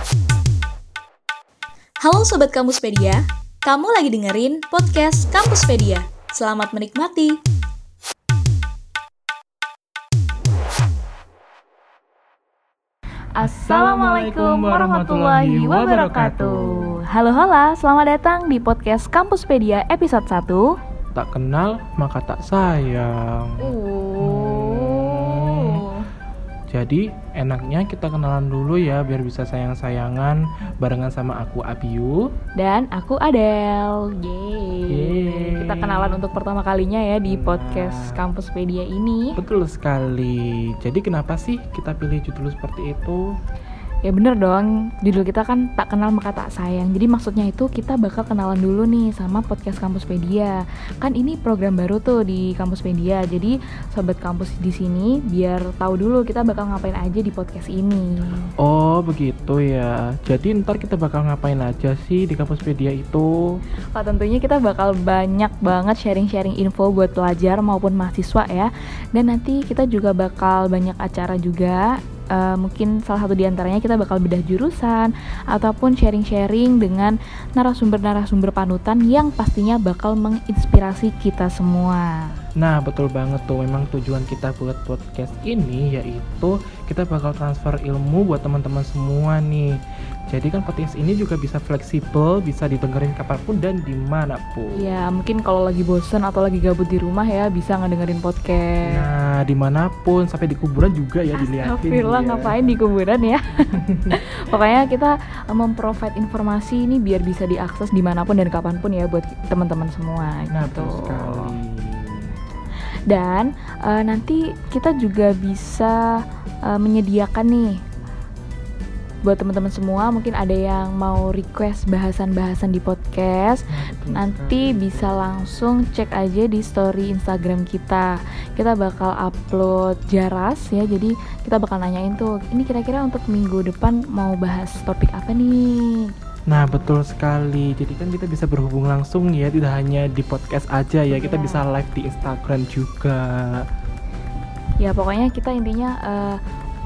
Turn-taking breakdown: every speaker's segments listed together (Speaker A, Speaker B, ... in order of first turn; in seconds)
Speaker A: 2.0-7.4, 13.3-20.7, 23.6-26.1, 32.6-39.4, 44.0-58.5, 63.9-82.3, 94.8-99.1, 101.4-103.5, 104.1-111.5, 113.1-117.8, 119.2-136.9, 141.1-141.6, 144.8-146.4
Speaker B: 13.4-16.9, 21.1-25.8, 26.7-32.2, 34.9-36.2, 37.2-38.1, 39.4-43.2, 58.6-63.6, 82.6-89.7, 90.3-95.0, 98.9-102.6, 103.7-104.1, 110.5-112.3, 123.7-125.2, 136.5-143.6